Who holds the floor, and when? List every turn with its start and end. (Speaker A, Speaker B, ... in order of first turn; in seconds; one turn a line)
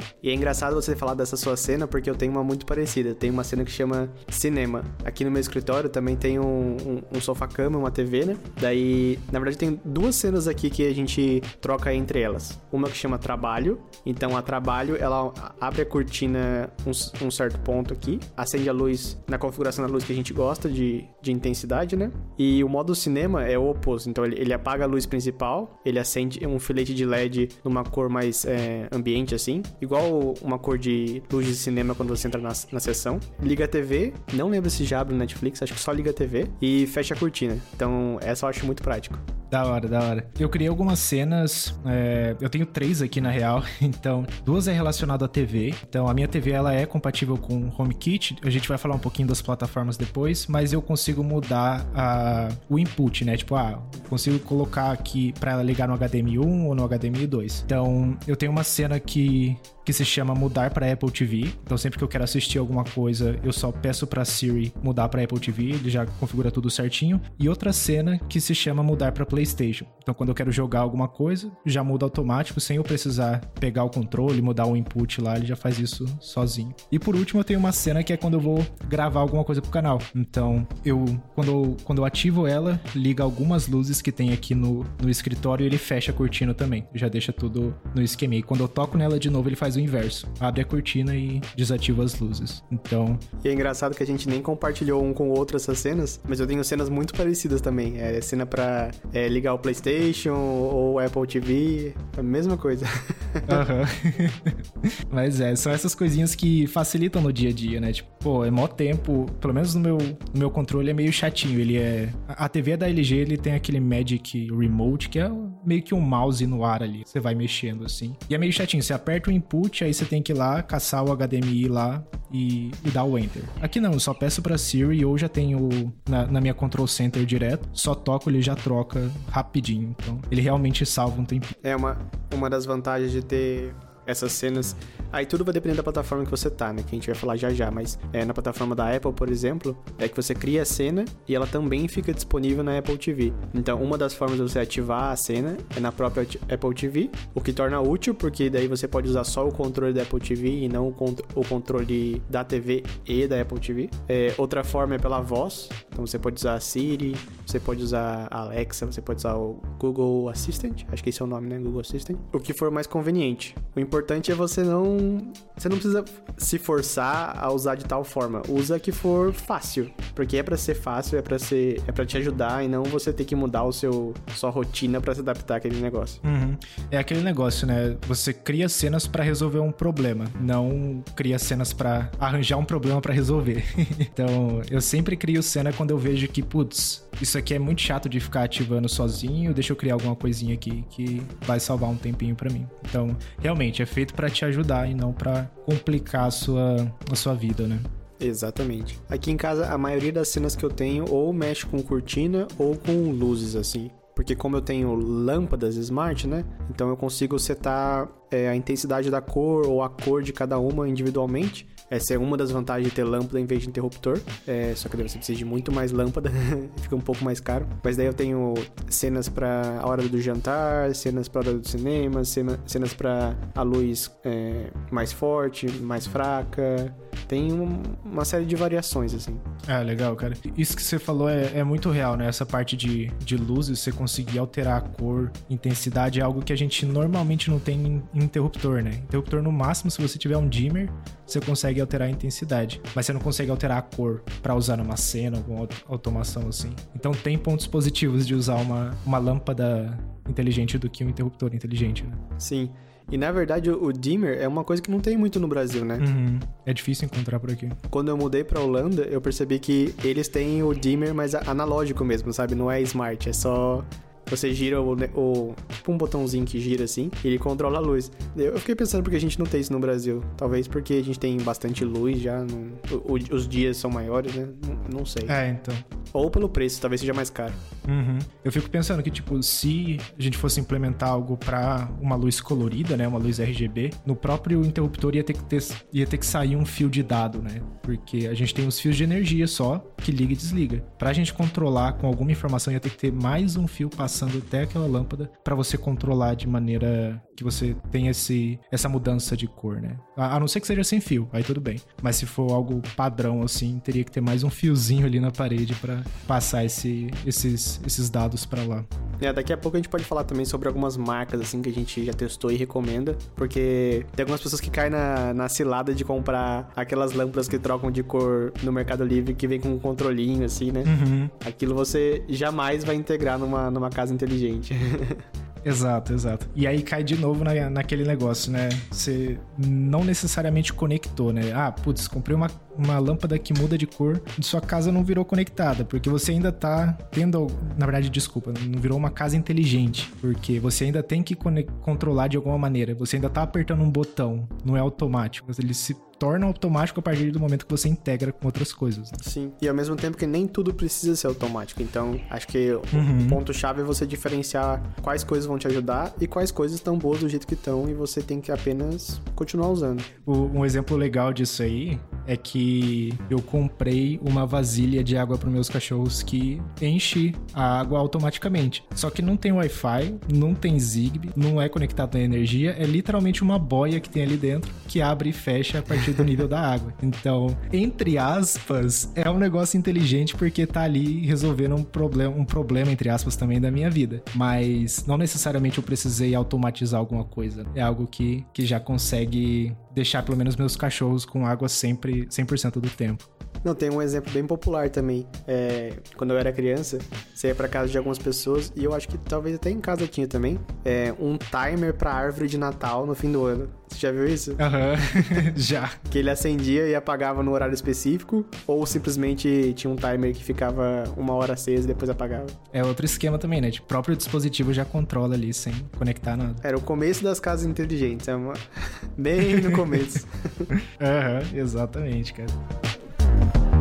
Speaker A: 0.2-39.2
Speaker B: 39.5-93.2
Speaker A: 93.4-103.6
Speaker B: 103.5-131.6
Speaker A: 131.6-176.2
Speaker B: 176.2-197.9
Speaker A: 198.2-229.4
Speaker B: 229.7-252.2
Speaker A: 252.4-256.1
Speaker B: 256.0-257.8
Speaker A: 257.9-275.4
Speaker B: 275.2-275.8
Speaker A: 276.1-277.6
Speaker B: 277.9-308.9
Speaker A: 309.2-325.2
Speaker B: 320.8-321.3
Speaker B: 325.6-349.2
Speaker A: 349.2-360.1
Speaker B: 352.9-353.4
Speaker B: 360.2-393.3
Speaker A: 393.6-405.5
Speaker B: 404.6-406.0
Speaker A: 406.1-412.6
Speaker B: 412.7-416.6
Speaker A: 416.6-420.7
Speaker B: 419.5-420.2
Speaker B: 420.8-422.6